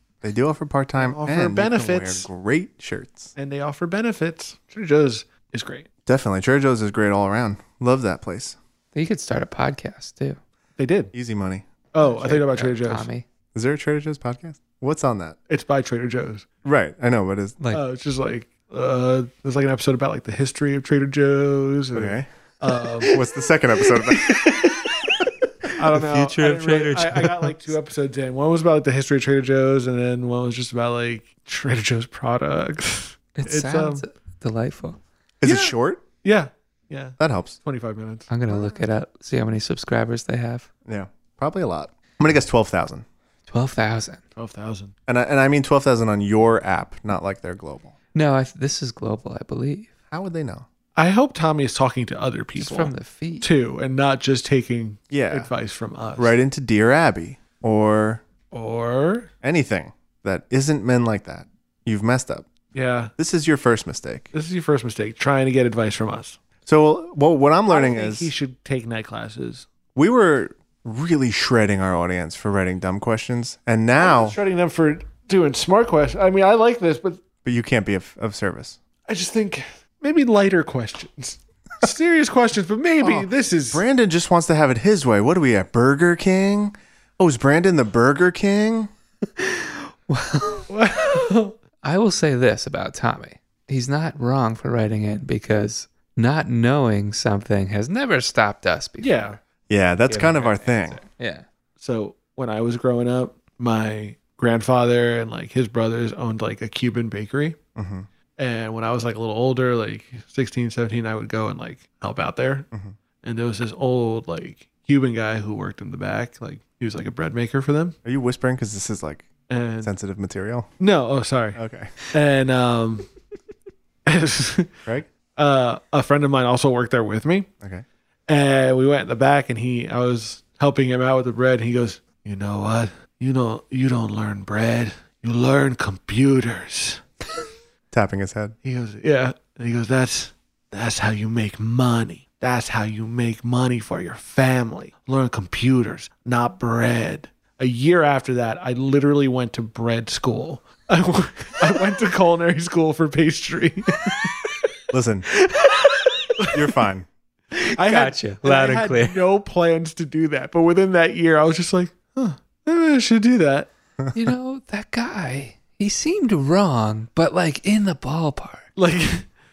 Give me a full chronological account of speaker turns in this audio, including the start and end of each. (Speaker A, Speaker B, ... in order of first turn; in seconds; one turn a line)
Speaker A: 0.2-3.3
Speaker B: 1.0-2.3
Speaker B: 3.4-5.9
Speaker A: 6.0-8.6
Speaker C: 8.9-10.4
Speaker B: 10.8-11.1
Speaker A: 11.1-11.7
Speaker B: 11.9-13.1
Speaker C: 12.0-13.2
Speaker A: 13.5-15.3
Speaker B: 15.5-16.4
Speaker A: 16.6-17.6
Speaker B: 17.7-23.2
Speaker A: 21.9-22.3
Speaker A: 23.1-24.4
Speaker C: 24.1-27.7
Speaker B: 25.7-34.0
Speaker C: 33.3-35.0
Speaker A: 35.4-36.0
Speaker B: 35.4-38.8
Speaker A: 37.2-37.6
Speaker C: 38.3-40.7
Speaker A: 40.9-43.0
Speaker C: 43.5-44.2
Speaker B: 44.4-44.9
Speaker A: 45.1-47.9
Speaker C: 48.1-49.9
Speaker A: 50.1-50.6
Speaker B: 51.0-56.4
Speaker C: 52.6-53.5
Speaker A: 55.1-55.5
Speaker A: 56.2-58.2
Speaker B: 58.5-59.3
Speaker A: 59.4-62.5
Speaker B: 62.7-63.1
Speaker A: 63.2-64.3
Speaker B: 64.3-66.4
Speaker A: 66.7-68.3
Speaker B: 67.7-69.7
Speaker A: 69.9-74.4
Speaker B: 74.0-77.2
Speaker A: 77.4-78.8
Speaker B: 79.1-83.8
Speaker A: 83.0-88.9
Speaker C: 89.4-91.2
Speaker B: 90.7-91.5
Speaker C: 91.8-99.3
Speaker B: 99.0-99.4
Speaker A: 99.7-101.0
Speaker C: 100.1-101.5
Speaker B: 101.8-107.6
Speaker A: 107.8-108.1
Speaker B: 108.4-112.7
Speaker B: 113.2-118.0
Speaker A: 118.0-119.3
Speaker B: 119.5-119.9
Speaker A: 119.8-120.7
Speaker B: 120.8-123.1
Speaker A: 121.5-121.9
Speaker B: 124.0-124.7
Speaker B: 125.4-127.5
Speaker B: 128.3-137.0
Speaker A: 137.9-138.6
Speaker B: 138.6-154.3
Speaker A: 154.9-155.3
Speaker C: 155.5-156.3
Speaker A: 156.5-157.1
Speaker C: 157.5-159.2
Speaker B: 157.8-163.7
Speaker C: 164.1-168.7
Speaker B: 168.8-169.3